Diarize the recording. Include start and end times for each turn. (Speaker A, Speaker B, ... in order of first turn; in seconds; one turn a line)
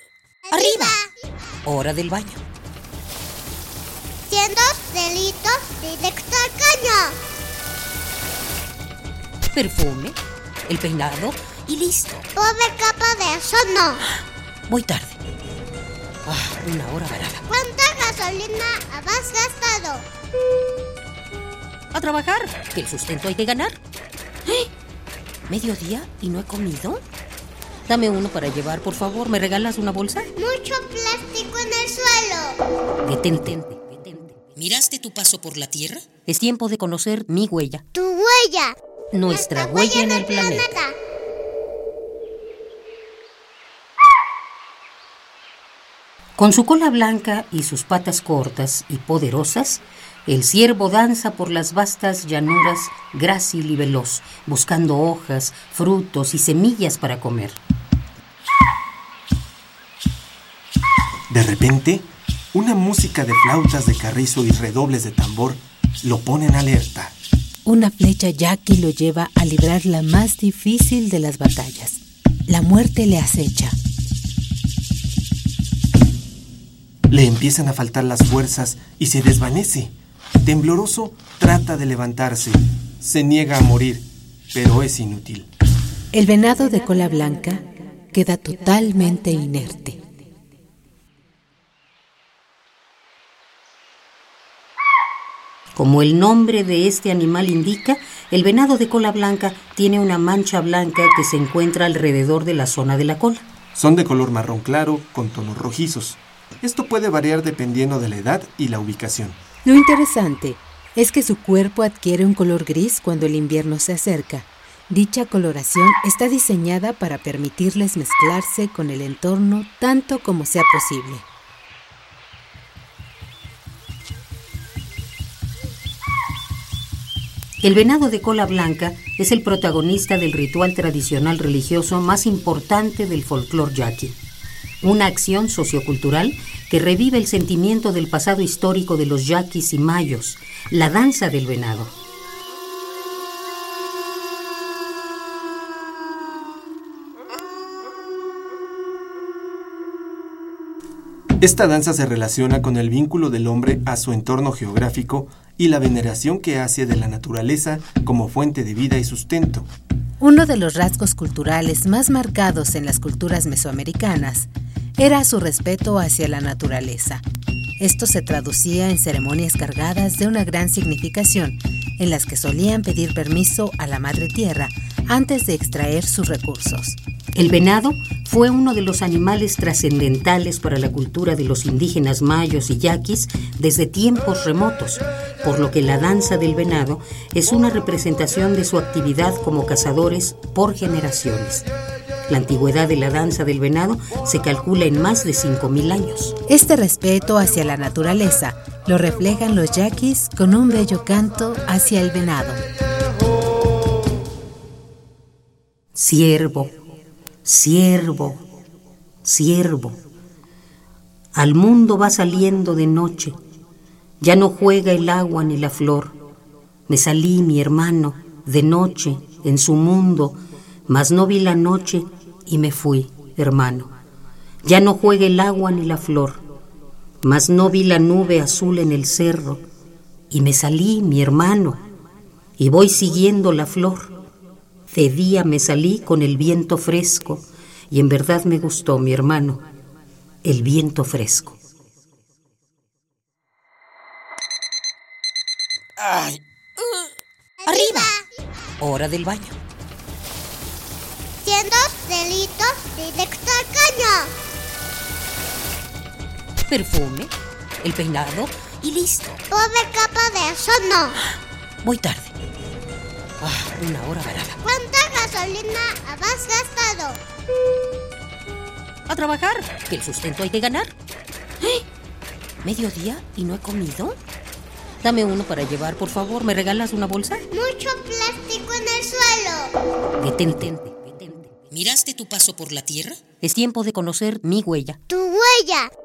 Speaker A: 0.5-1.1
Speaker B: 0.5-1.0
Speaker B: 1.6-2.4
Speaker A: 4.3-7.2
Speaker B: 9.5-12.2
Speaker A: 12.3-14.0
Speaker B: 14.7-15.2
Speaker B: 16.2-17.4
Speaker A: 17.5-20.0
Speaker B: 21.9-23.8
Speaker B: 25.5-27.0
Speaker B: 27.9-30.3
Speaker A: 30.4-32.6
Speaker B: 33.0-37.8
Speaker A: 37.9-38.7
Speaker B: 39.1-40.7
Speaker A: 39.3-40.9
Speaker B: 46.4-57.6
Speaker C: 61.3-67.1
Speaker D: 67.6-73.8
Speaker C: 77.1-85.5
Speaker D: 86.1-90.0
Speaker B: 95.7-103.5
Speaker C: 103.7-109.4
Speaker D: 109.6-121.2
Speaker B: 127.6-134.2
Speaker B: 134.8-141.9
Speaker C: 151.4-159.7
Speaker D: 160.2-167.2
Speaker D: 167.8-177.0
Speaker B: 177.3-191.7
Speaker B: 192.3-196.3
Speaker D: 196.5-202.6
Speaker B: 205.9-206.8
Speaker B: 207.4-208.4
Speaker B: 209.2-210.0
Speaker B: 211.3-213.4
Speaker B: 214.2-216.1
Speaker B: 216.9-223.9
Speaker B: 224.6-226.4
Speaker B: 227.2-229.6
Speaker B: 230.3-231.8
Speaker B: 232.6-234.1
Speaker B: 234.9-239.6
Speaker B: 240.4-241.6
Speaker B: 246.0-246.4
Speaker A: 247.6-248.2
Speaker B: 247.7-248.2
Speaker B: 248.8-249.5
Speaker A: 251.4-254.3
Speaker B: 256.7-259.4
Speaker A: 259.5-261.2
Speaker B: 261.8-262.3
Speaker B: 263.4-264.6
Speaker A: 264.6-267.2
Speaker B: 269.1-270.9
Speaker B: 272.6-274.1
Speaker B: 275.0-277.4
Speaker A: 277.5-279.7
Speaker B: 280.2-285.0
Speaker A: 285.1-285.9